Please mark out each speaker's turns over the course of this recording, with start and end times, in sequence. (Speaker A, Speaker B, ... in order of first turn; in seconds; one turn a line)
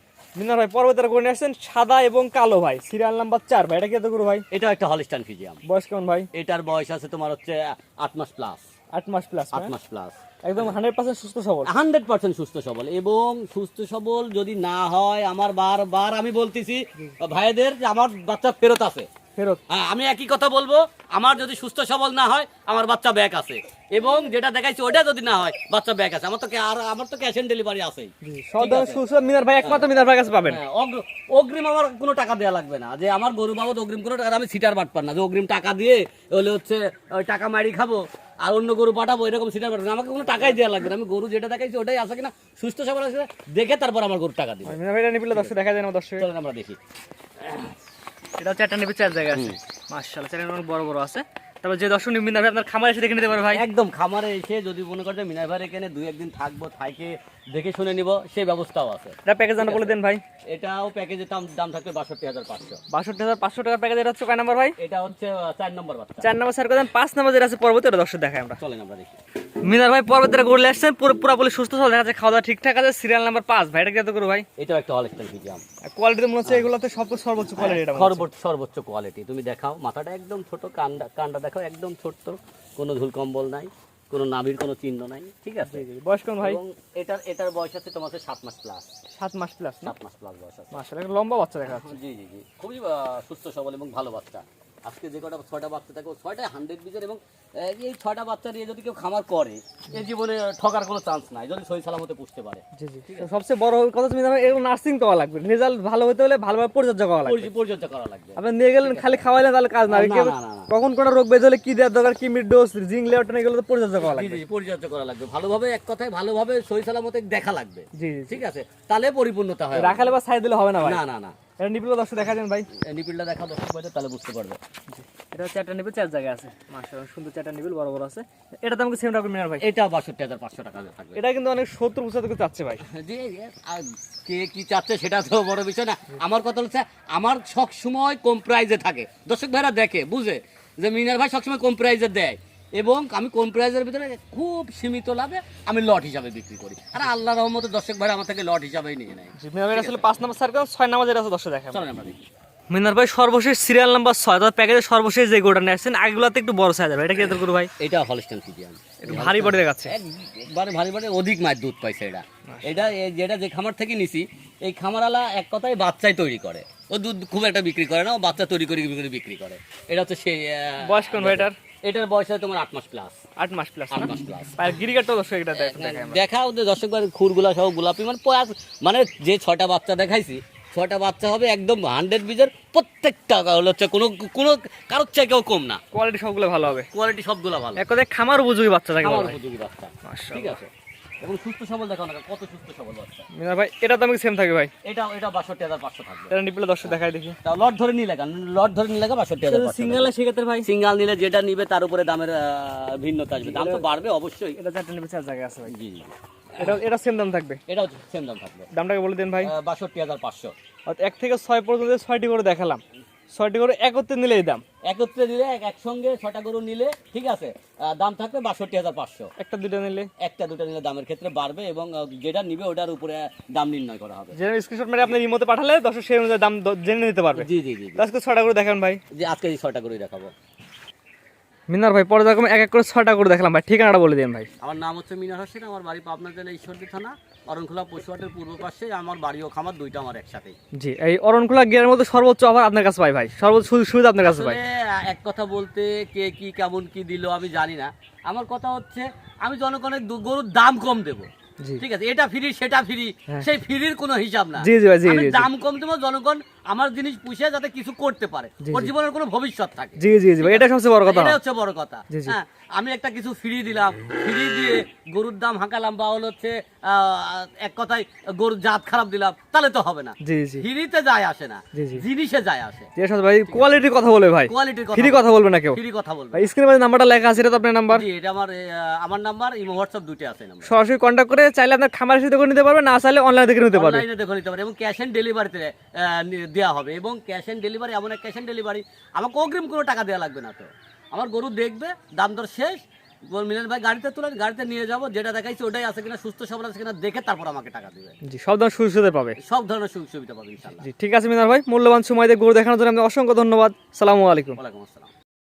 Speaker A: 0.4-4.5
Speaker B: 4.5-5.6
Speaker A: 5.7-6.3
Speaker B: 6.3-8.6
Speaker A: 8.9-9.7
Speaker B: 9.5-10.7
Speaker A: 10.4-11.7
Speaker B: 11.7-19.1
Speaker B: 19.7-29.0
Speaker A: 28.2-30.6
Speaker B: 29.6-29.9
Speaker B: 30.4-44.8
Speaker A: 44.6-46.3
Speaker B: 46.2-46.8
Speaker B: 47.4-47.7
Speaker A: 48.4-53.6
Speaker B: 49.3-49.6
Speaker B: 53.5-60.0
Speaker A: 59.3-60.2
Speaker B: 60.5-62.8
Speaker A: 62.9-64.8
Speaker B: 64.8-66.3
Speaker A: 66.2-68.6
Speaker B: 68.6-69.2
Speaker A: 69.6-74.5
Speaker B: 74.6-75.6
Speaker A: 75.9-78.3
Speaker B: 77.6-85.8
Speaker A: 85.7-86.6
Speaker B: 86.4-88.9
Speaker A: 89.1-89.9
Speaker B: 89.8-90.7
Speaker A: 90.7-92.0
Speaker B: 91.7-103.3
Speaker A: 102.8-107.5
Speaker B: 107.2-109.2
Speaker A: 108.4-114.4
Speaker B: 109.9-110.7
Speaker B: 114.0-120.2
Speaker A: 118.0-118.4
Speaker A: 119.7-121.0
Speaker B: 120.8-121.3
Speaker A: 121.6-122.7
Speaker B: 122.7-124.6
Speaker A: 124.9-129.6
Speaker B: 129.6-131.2
Speaker A: 131.2-132.8
Speaker B: 132.8-150.1
Speaker A: 149.4-151.8
Speaker B: 151.7-152.3
Speaker A: 152.7-157.7
Speaker B: 157.8-173.2
Speaker A: 159.0-159.9
Speaker A: 162.5-162.9
Speaker A: 170.8-171.6
Speaker A: 173.4-176.2
Speaker B: 173.9-174.6
Speaker B: 175.6-185.8
Speaker A: 185.9-186.9
Speaker B: 186.7-187.9
Speaker A: 187.8-189.4
Speaker B: 189.0-190.7
Speaker A: 190.1-190.6
Speaker B: 191.2-193.3
Speaker A: 193.3-194.7
Speaker B: 194.8-204.6
Speaker A: 196.3-197.4
Speaker A: 199.5-200.7
Speaker A: 203.4-203.9
Speaker A: 204.6-205.7
Speaker B: 205.7-206.8
Speaker A: 206.6-207.6
Speaker B: 207.7-208.7
Speaker A: 208.7-209.5
Speaker B: 209.4-210.5
Speaker A: 210.9-212.8
Speaker A: 213.3-214.6
Speaker B: 214.8-219.3
Speaker A: 219.4-220.1
Speaker B: 220.2-224.4
Speaker A: 224.3-229.0
Speaker B: 227.3-228.0
Speaker B: 229.1-230.3
Speaker A: 231.7-234.5
Speaker B: 234.6-240.6
Speaker A: 240.8-244.6
Speaker B: 244.2-272.9
Speaker A: 254.6-255.5
Speaker A: 258.6-258.9
Speaker A: 260.0-261.4
Speaker A: 262.1-262.4
Speaker A: 270.2-270.6
Speaker A: 271.8-272.0
Speaker A: 273.0-275.8
Speaker B: 274.5-276.5
Speaker A: 276.3-278.1
Speaker B: 277.9-280.7
Speaker A: 280.6-284.1
Speaker B: 283.7-298.1
Speaker A: 298.2-299.4
Speaker B: 299.4-300.9
Speaker A: 300.8-304.6
Speaker B: 304.5-305.1